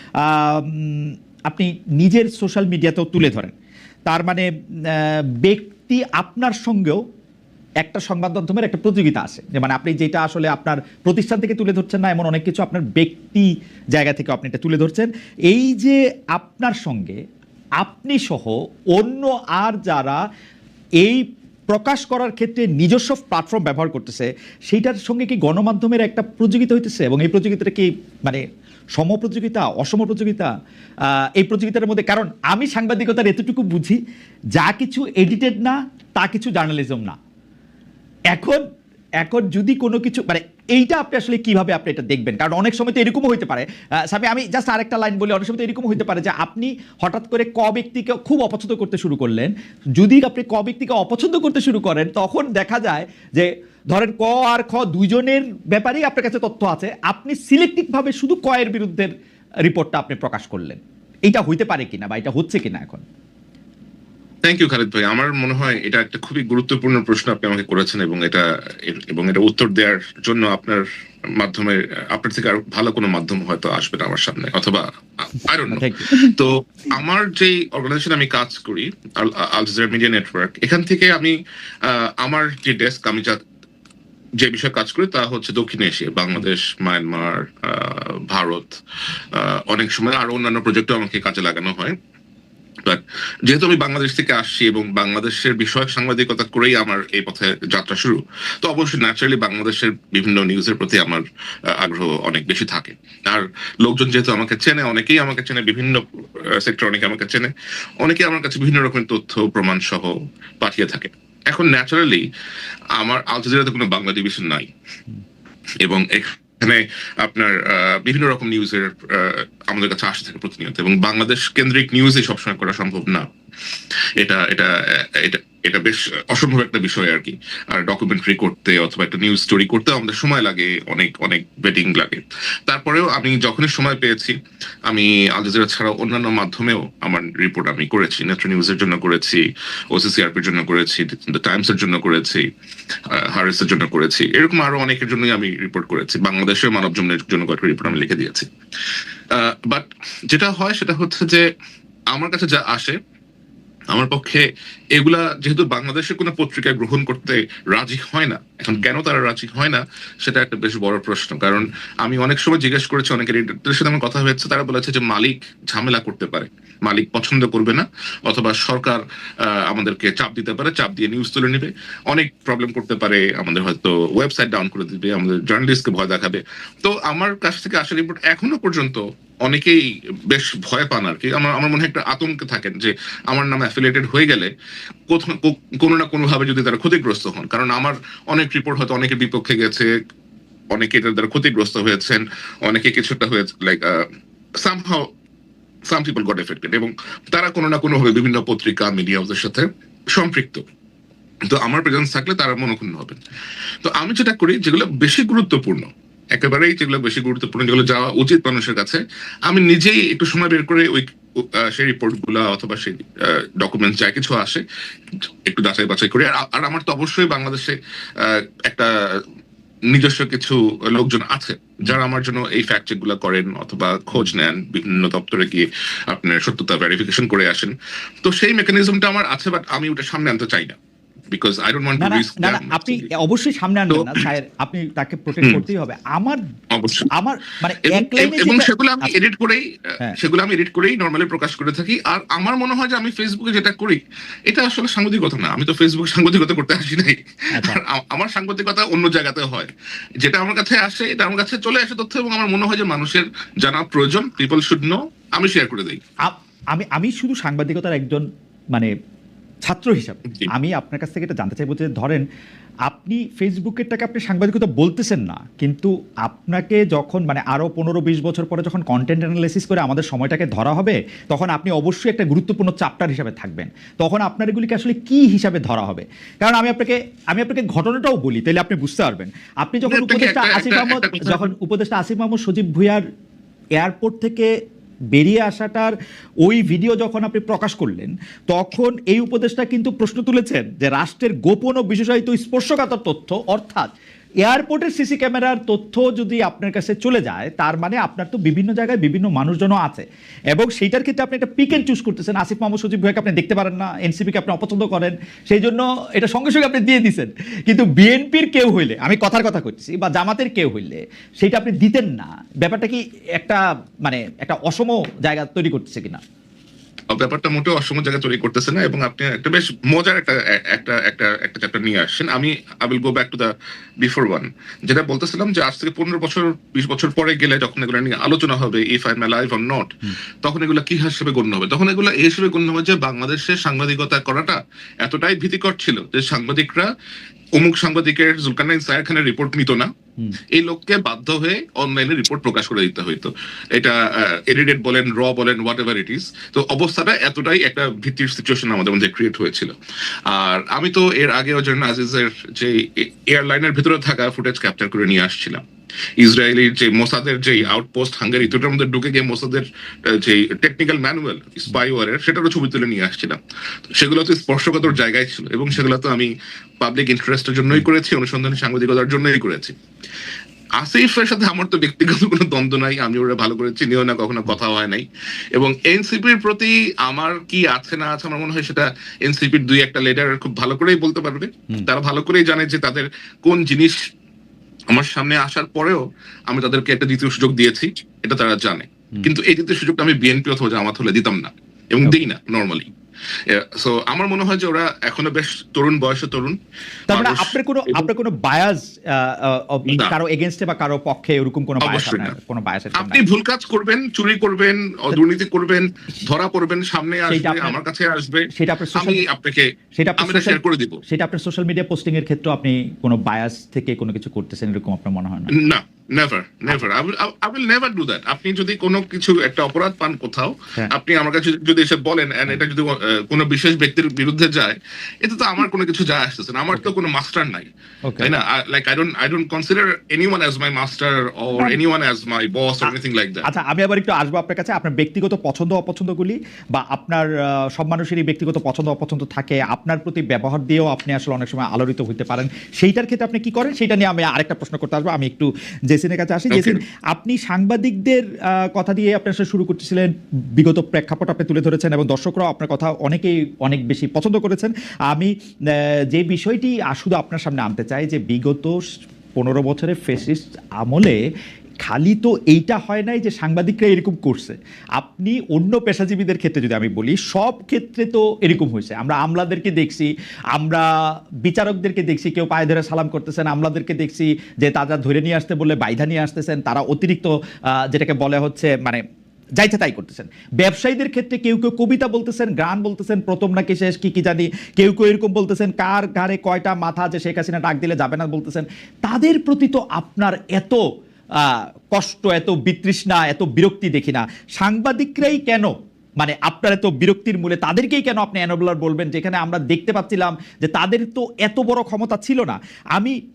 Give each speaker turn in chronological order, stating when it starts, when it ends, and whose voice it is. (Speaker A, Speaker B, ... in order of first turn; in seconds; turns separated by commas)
Speaker A: 0.2-3.5, Speaker A: 4.1-7.0, Speaker A: 7.8-17.2, Speaker A: 17.8-20.2, Speaker A: 21.0-28.4, Speaker A: 29.0-30.5, Speaker A: 31.1-34.0, Speaker A: 34.5-37.1, Speaker A: 38.3-38.6, Speaker A: 39.2-59.1, Speaker A: 59.7-63.0, Speaker B: 64.4-70.8, Speaker B: 71.4-83.4, Speaker A: 75.7-76.3, Speaker B: 84.4-88.7, Speaker B: 89.3-92.0, Speaker B: 92.8-112.2, Speaker B: 113.0-114.7, Speaker B: 115.8-123.3, Speaker B: 124.2-134.3, Speaker B: 134.9-142.5, Speaker B: 143.1-148.5, Speaker B: 149.3-151.4, Speaker B: 152.1-153.0, Speaker B: 153.9-184.5, Speaker B: 185.1-189.9, Speaker B: 190.7-194.1, Speaker B: 194.6-195.1, Speaker B: 195.9-200.6, Speaker B: 201.5-203.2, Speaker B: 203.8-214.6, Speaker B: 215.4-219.2, Speaker B: 219.9-230.7, Speaker B: 231.3-233.1, Speaker A: 232.0-236.4, Speaker B: 233.9-234.2, Speaker B: 236.7-237.1, Speaker A: 237.2-239.1, Speaker B: 237.8-256.0, Speaker A: 256.2-258.9, Speaker A: 259.6-262.2, Speaker A: 262.9-283.0, Speaker B: 279.9-281.4, Speaker A: 283.8-284.5, Speaker A: 285.1-293.9, Speaker A: 294.4-316.2, Speaker B: 317.1-323.5, Speaker B: 324.0-336.9, Speaker B: 337.5-339.9, Speaker B: 340.5-349.7, Speaker B: 350.3-355.6, Speaker B: 356.2-369.7, Speaker B: 370.8-384.0, Speaker B: 384.9-392.9, Speaker B: 393.5-396.6, Speaker B: 397.1-398.1, Speaker A: 397.1-403.2, Speaker B: 399.9-400.1, Speaker B: 401.8-402.4, Speaker B: 402.9-411.0, Speaker A: 407.3-407.7, Speaker A: 408.5-409.2, Speaker A: 409.9-415.5, Speaker B: 415.5-427.7, Speaker B: 428.2-433.5, Speaker A: 433.4-458.7, Speaker B: 446.5-446.8, Speaker A: 459.4-461.2, Speaker A: 461.8-470.8, Speaker A: 471.4-479.0, Speaker A: 479.6-490.8, Speaker A: 491.4-503.1